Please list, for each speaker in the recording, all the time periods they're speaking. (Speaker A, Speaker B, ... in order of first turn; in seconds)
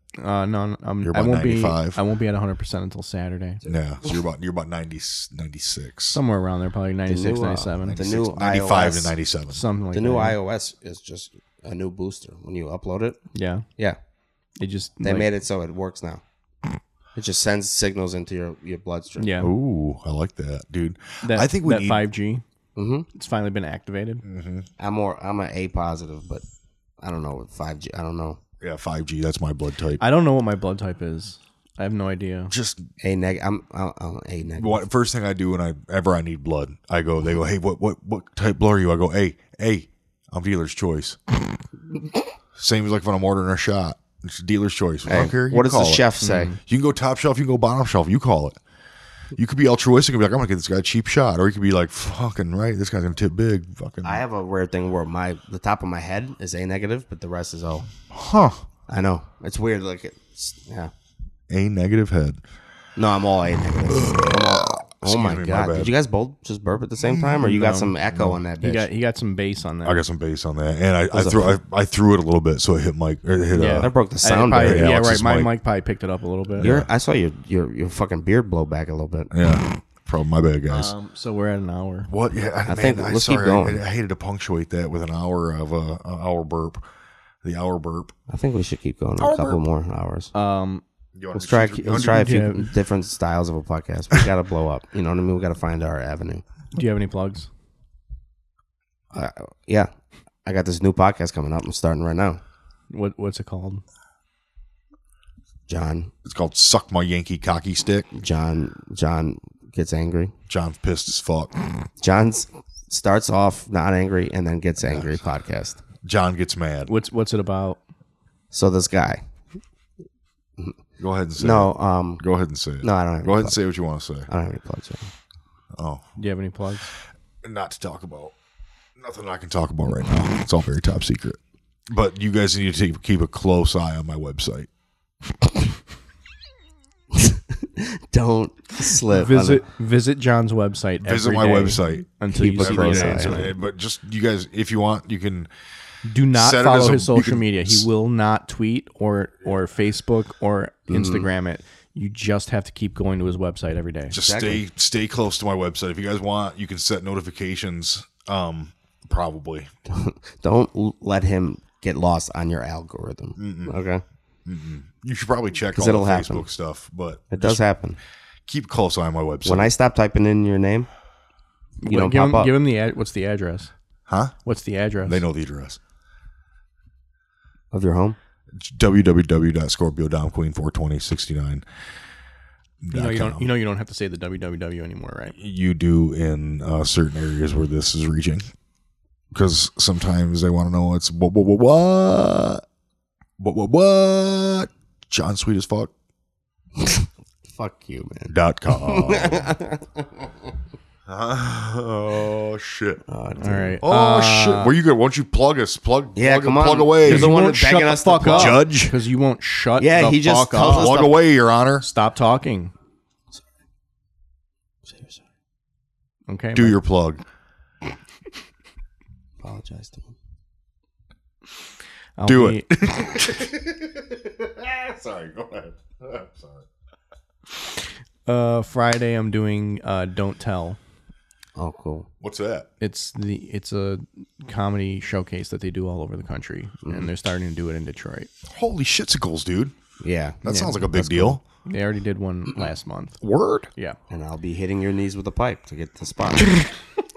Speaker A: 0.2-3.6, 6.1-8.0, 9.5-10.4, 13.3-13.6, 14.6-15.3, 19.2-19.5, 21.2-22.4, 23.1-24.2, 30.0-32.5, 46.2-46.6, 67.4-67.9, 68.6-70.0, 73.5-76.7, 80.7-82.1, 90.3-90.8, 91.8-92.7, 96.7-97.5, 102.9-103.8, 116.9-117.8, 126.2-126.9, 139.1-143.5, 146.0-154.2, 171.8-173.7, 174.4-175.2, 182.9-185.3, 203.4-204.7, 207.0-211.0, 211.8-212.7, 216.3-216.8, 222.2-222.7, 228.2-230.8, 232.8-238.3, 240.4-243.2
Speaker B: 1.0-2.0, 3.6-6.2, 7.8-9.6, 19.4-22.0, 24.2-24.7, 28.6-30.0, 32.5-32.9, 34.6-41.2, 42.5-46.0, 46.6-48.6, 49.3-54.2, 58.1-58.6, 61.5-62.4, 65.0-65.9, 67.1-67.5, 68.1-68.4, 69.8-73.9, 74.5-75.5, 76.6-76.9, 79.3-80.9, 82.1-86.8, 87.4-88.1, 89.2-89.6, 91.2-92.3, 106.2-108.1, 110.5-111.5, 116.0-116.9, 121.0-124.3, 125.7-126.0, 127.4-128.3, 129.0-134.7, 141.0-145.5, 146.3-147.8, 154.1-159.7, 163.4-163.8, 164.4-167.6, 168.5-169.7, 174.1-174.3, 175.0-175.8, 178.5-181.6, 182.8-183.5, 185.4-188.4, 189.3-192.6, 193.4-195.9, 198.3-199.5, 201.1-203.0, 203.8-207.3, 208.2-208.9, 210.6-211.8, 216.5-217.2, 222.2-226.6, 232.2-232.7, 238.5-239.7, 240.4-241.4, 243.2-243.7
Speaker C: 7.1-9.1, 9.9-13.2, 15.0-16.2, 17.1-19.4, 22.8-23.1, 24.8-26.4, 27.0-28.4, 33.0-34.8, 45.0-46.5, 54.0-57.9, 58.9-60.9, 63.0-68.9, 71.1-71.6, 73.6-74.9, 76.6-79.3, 82.7-83.8, 88.3-90.3, 91.3-96.4, 99.1-99.9, 100.4-102.4, 105.7-106.1, 108.2-110.3, 112.0-115.8, 118.5-119.2, 121.4-122.2, 122.8-123.6, 124.3-125.1, 137.1-139.6, 142.3-143.5, 150.9-151.3, 154.2-154.6, 159.9-164.0, 165.7-166.5, 167.3-168.0, 169.4-170.9, 171.8-172.5, 177.7-178.2, 196.8-200.3, 203.1-203.8, 206.1-208.6, 209.8-211.2, 214.9-215.2, 219.4-220.1, 231.6-232.1, 236.8-237.1, 240.0-240.4, 244.1-246.6